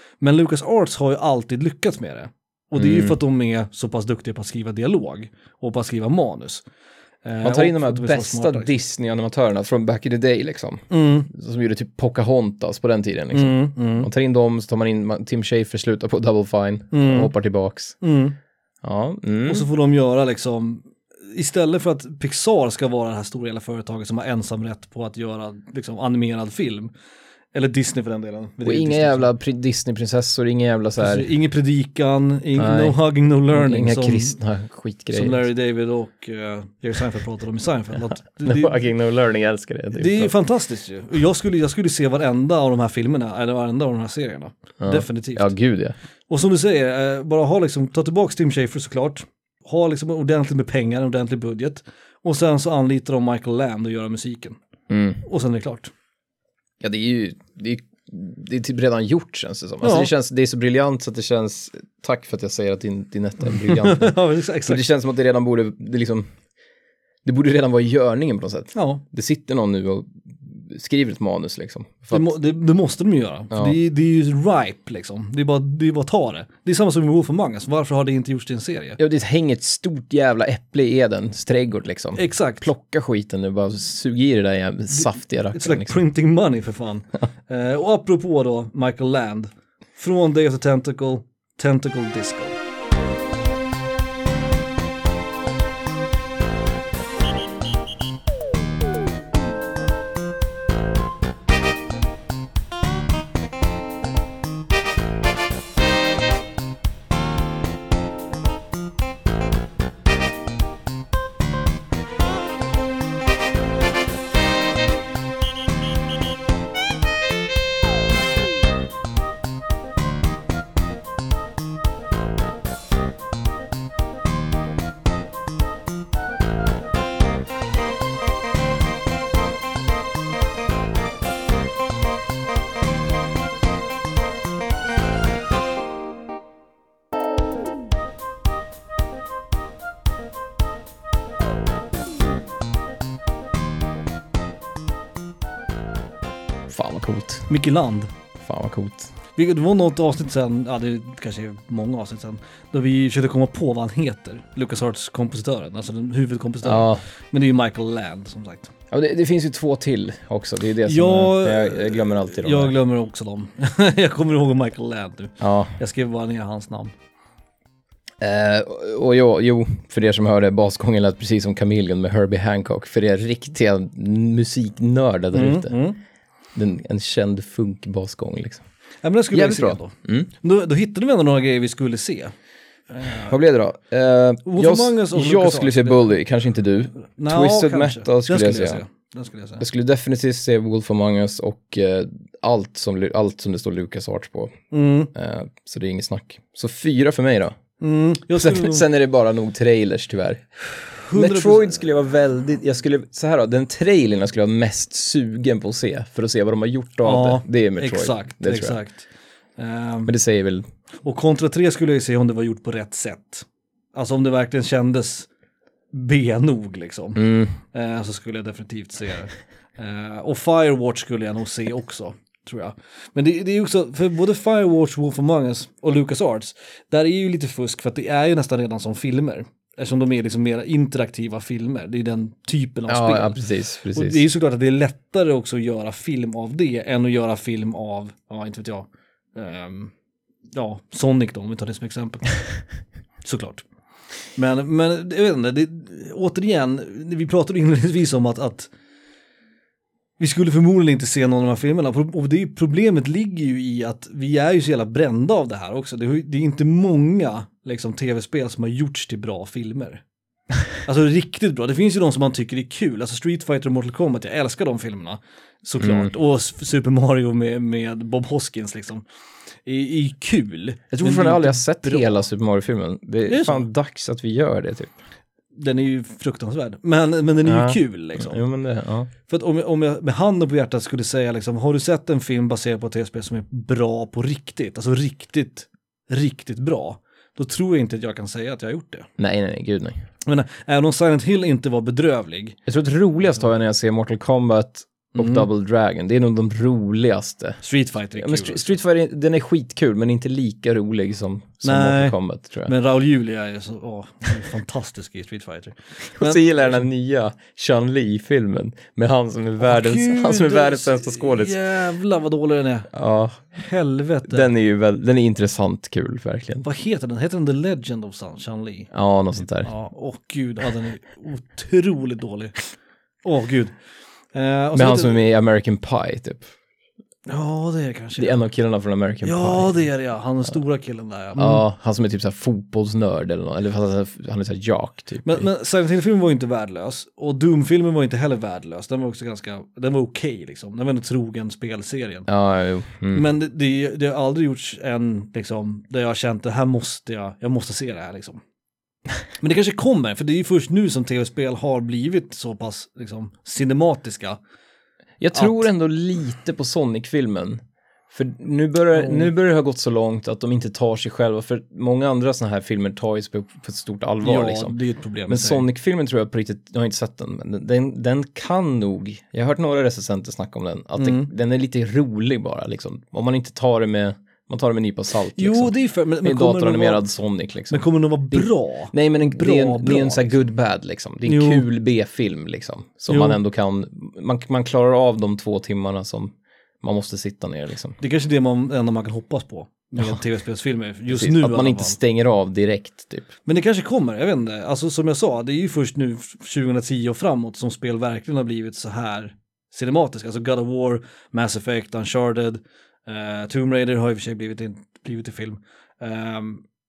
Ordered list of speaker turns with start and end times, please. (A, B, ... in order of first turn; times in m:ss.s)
0:00.2-0:06.6 A
0:02.8-0:03.2 B
0:07.2-0:08.7 A
0:07.4-0:18.0 B
0:10.9-0:11.3 A
0:13.3-0:14.1 A
0:16.9-0:17.3 A
0:18.0-0:18.4 A
0:18.8-0:19.7 B
0:19.5-0:26.9 A
0:27.5-0:29.3 A
0:28.6-0:31.3 B
0:31.0-0:34.4 A
0:32.6-0:33.0 B
0:33.5-0:35.4 B
0:35.1-0:38.8 A
0:38.4-0:40.3 B
0:39.9-0:45.5 A
0:44.8-0:45.9 B
0:46.3-0:54.6 A
0:54.9-0:55.2 B
0:55.2-0:55.9 A
0:56.8-1:06.3 B
0:59.8-1:00.1 A
1:03.4-1:04.8 A
1:07.2-1:12.3 B
1:08.7-1:09.0 A
1:12.1-1:19.0 A
1:13.5-1:13.8 B
1:19.0-1:26.0 B
1:22.2-1:22.7 A
1:24.9-1:32.6 A
2:26.7-2:27.5 B
2:27.5-2:28.1 A
2:28.4-2:29.1 B
2:29.4-2:38.7 A
2:36.6-2:37.0 B
2:38.9-2:42.7 B
2:40.8-2:46.9 A
2:45.4-2:45.8 B
2:48.2-2:55.7 B
2:55.3-2:56.0 A
2:56.5-2:58.6 B
2:59.0-3:02.3 A
2:59.3-3:00.3 B
3:02.9-3:03.3 A
3:03.2-3:08.8 B
3:04.4-3:06.1 A
3:07.2-3:09.6 A
3:09.6-3:14.6 B
3:14.7-3:15.1 A
3:15.1-3:17.5 B
3:17.8-3:18.8 A
3:18.4-3:20.4 B
3:20.8-3:21.8 A
3:21.1-3:28.8 B
3:27.0-3:30.1 A
3:30.0-3:30.6 B
3:31.0-3:35.3 A
3:35.9-3:53.4 A
3:37.2-3:37.5 B
3:52.9-3:54.2 B
3:53.9-3:59.9 A
4:00.5-4:02.3 A
4:03.2-4:03.6 A
4:04.4-4:08.7 A
4:10.2-4:20.0 A
4:20.8-4:29.0 A
4:25.8-4:26.1 B
4:29.6-4:32.1 A
4:30.9-4:35.0 B
4:33.3-4:33.6 A
4:35.5-4:38.4 A
4:37.4-4:39.1 B
4:39.3-4:49.1 A
4:49.2-4:50.0 B
4:50.2-4:52.6 A
4:52.7-4:57.6 B
4:55.2-4:55.5 A
4:57.6-4:58.7 A
4:58.2-5:02.7 B
5:01.6-5:06.8 A
5:06.2-5:11.6 B
5:09.6-5:12.9 A
5:12.9-5:13.5 B
5:13.6-5:14.5 A
5:14.3-5:16.6 B
5:16.6-5:18.9 A
5:18.9-5:19.7 B
5:19.6-5:23.8 A
5:24.3-5:25.2 A
5:24.7-5:26.5 B
5:27.3-5:28.4 A
5:28.2-5:29.8 B
5:29.2-5:31.6 A
5:31.4-5:35.5 B
5:35.2-5:42.3 A
5:42.3-5:43.2 B
5:43.1-5:48.4 A
5:49.4-5:54.4 A
5:55.2-6:04.8 B
5:55.3-5:55.6 A
5:58.9-5:59.3 A
6:04.2-6:05.7 A
6:05.3-6:28.0 B
6:11.0-6:11.3 A
6:15.3-6:17.0 A
6:17.7-6:20.4 A
6:21.2-6:21.7 A
6:23.1-6:23.4 A
6:28.0-6:32.0 A
6:31.1-6:33.3 B
6:33.4-6:46.6 A